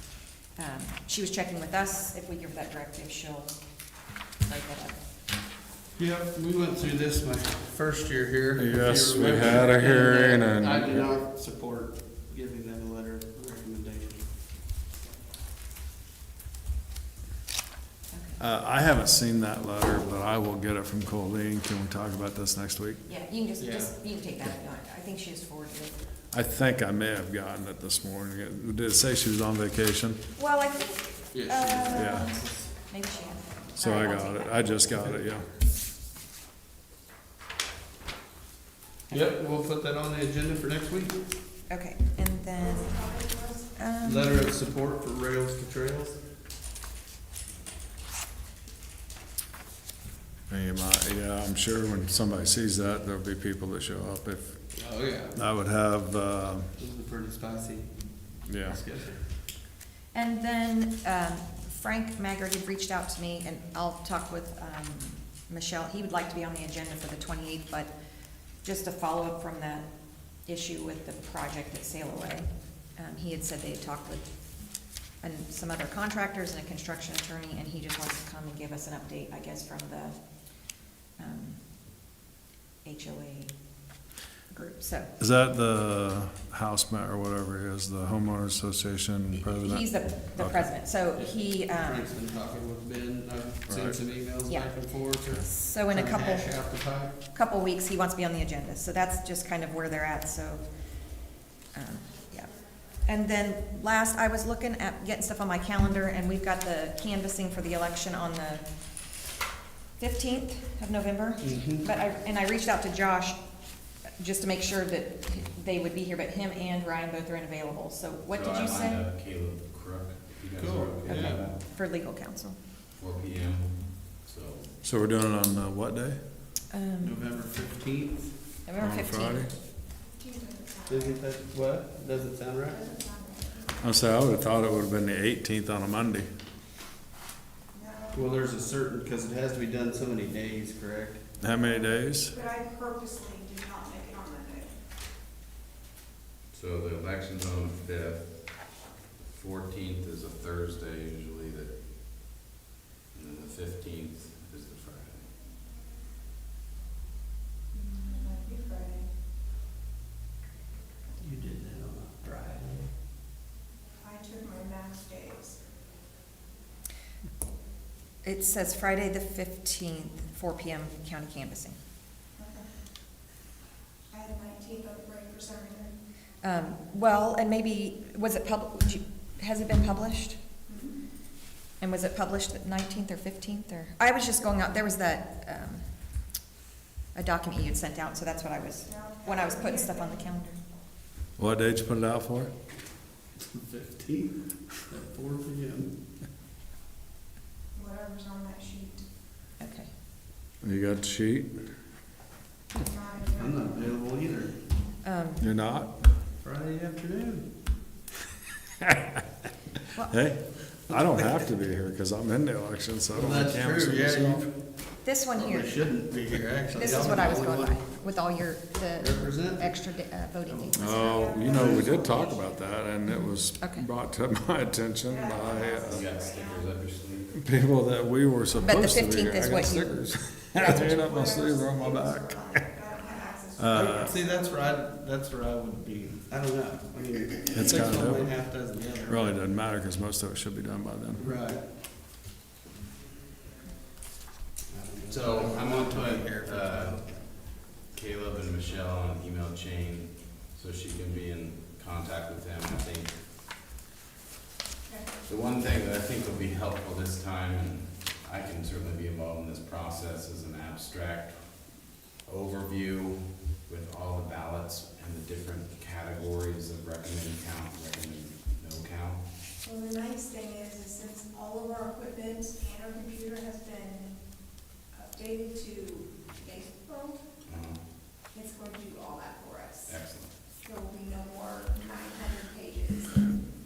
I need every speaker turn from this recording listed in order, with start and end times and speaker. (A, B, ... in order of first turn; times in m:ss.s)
0:00.6-0:03.5 A
0:04.4-0:05.0 A
0:06.0-0:14.2 B
0:08.6-0:11.1 C
0:18.1-0:18.4 A
0:18.4-0:23.0 C
0:23.1-0:26.0 A
0:23.6-0:23.9 B
0:26.3-0:30.2 C
0:30.4-0:34.8 A
0:31.3-0:32.5 B
0:31.9-0:32.4 C
0:33.8-0:35.5 C
0:39.1-0:41.2 B
0:39.1-0:39.4 A
0:41.7-0:44.5 A
0:43.0-0:43.6 D
0:44.0-0:46.2 B
0:50.5-0:54.7 C
0:54.7-0:55.4 B
0:55.3-0:56.7 C
0:56.8-0:59.2 B
0:58.5-0:58.8 C
1:00.1-1:07.9 A
1:08.6-1:09.9 A
1:10.4-1:14.3 A
1:15.2-1:20.2 A
1:21.2-1:21.6 A
1:22.8-1:23.6 A
1:24.5-1:25.1 A
1:25.2-1:30.7 C
1:29.5-1:32.1 A
1:31.2-1:37.1 B
1:33.7-1:34.0 C
1:34.5-1:40.6 A
1:41.7-1:48.6 A
1:50.0-1:53.4 A
1:51.4-1:51.9 B
1:54.2-1:59.0 A
1:58.3-2:01.6 E
2:00.6-2:01.5 B
2:01.1-2:02.6 A
2:02.9-2:04.7 E
2:04.8-2:06.2 C
2:06.7-2:07.2 A
2:07.0-2:08.3 B
2:08.7-2:09.5 A
2:08.8-2:09.5 C
2:10.2-2:11.2 D
2:10.9-2:12.9 B
2:12.8-2:13.7 D
2:13.8-2:16.3 C
2:17.7-2:18.3 D
2:18.1-2:21.2 B
2:21.4-2:22.4 C
2:22.3-2:24.8 D
2:26.5-2:31.7 E
2:33.1-2:35.3 E
2:37.8-2:39.1 D
2:41.2-2:42.9 B
2:44.0-2:45.6 D
2:48.2-2:51.8 A
2:52.4-2:52.7 D
2:54.1-2:56.0 D
2:56.4-3:00.4 A
3:01.8-3:05.9 A
3:07.1-3:10.6 A
3:09.0-3:10.1 D
3:11.4-3:12.5 C
3:13.4-3:16.0 B
3:17.8-3:19.0 D
3:19.6-3:19.9 A
3:20.6-3:21.7 C
3:22.8-3:23.9 D
3:23.3-3:24.6 B
3:25.0-3:25.5 A
3:25.4-3:25.9 C
3:26.4-3:27.5 B
3:30.1-3:34.5 C
3:33.1-3:34.6 B
3:35.0-3:35.8 A
3:35.3-3:37.9 B
3:36.7-3:41.4 A
3:39.0-3:39.8 B
3:40.5-3:42.0 B
3:40.7-3:46.2 C
3:41.1-3:42.5 D
3:43.6-3:43.9 A
3:45.1-3:46.7 D
3:45.9-3:47.4 E
3:47.4-3:52.6 C
3:48.6-3:50.0 A
3:50.6-3:54.5 D
3:53.6-3:54.1 C
3:53.7-3:59.4 B
3:57.5-3:58.4 C
3:59.1-4:01.3 C
4:01.2-4:01.6 B
4:04.7-4:07.2 B
4:05.1-4:13.2 E
4:15.2-4:21.4 E
4:22.2-4:29.2 E
4:29.6-4:34.1 D
4:34.9-4:37.2 D
4:37.5-4:37.8 E
4:38.3-4:39.9 D
4:39.9-4:40.3 E
4:40.6-4:43.4 D